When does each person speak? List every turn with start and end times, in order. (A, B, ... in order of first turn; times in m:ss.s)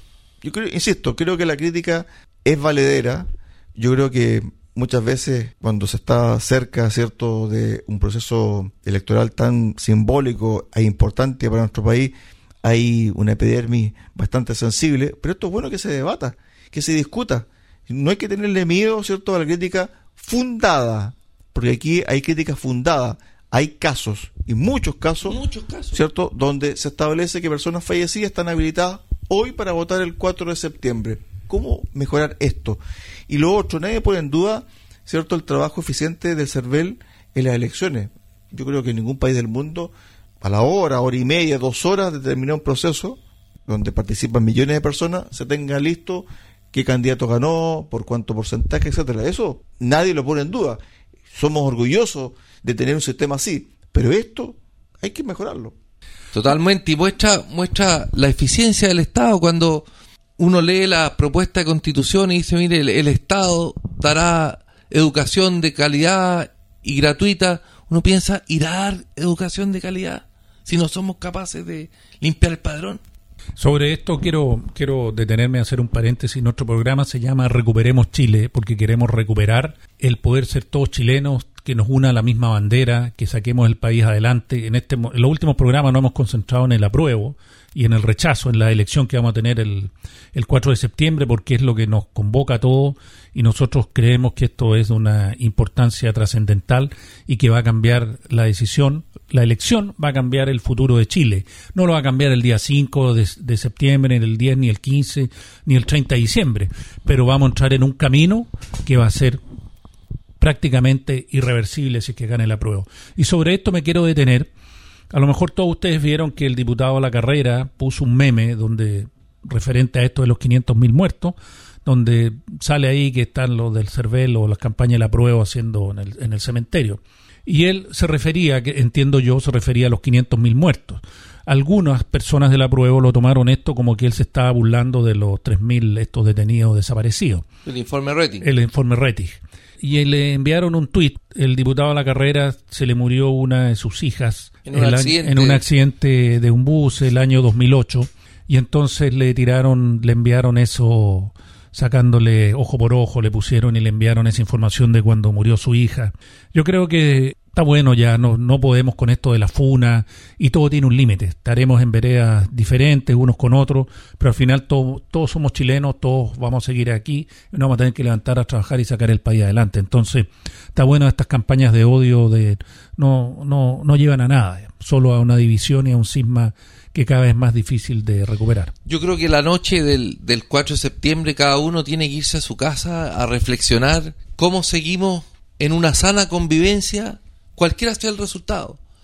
0:00.4-0:25.4 A
0:25.2-0:26.0 B
0:25.9-0:50.8 A
0:51.3-0:55.8 A
0:56.3-0:59.9 B
1:00.4-1:13.0 B
1:13.6-1:49.4 C
1:50.4-1:54.5 C
1:55.1-2:17.5 C
2:17.6-2:18.4 B
2:18.4-2:58.7 C
2:24.7-2:25.6 B
2:58.9-3:08.8 B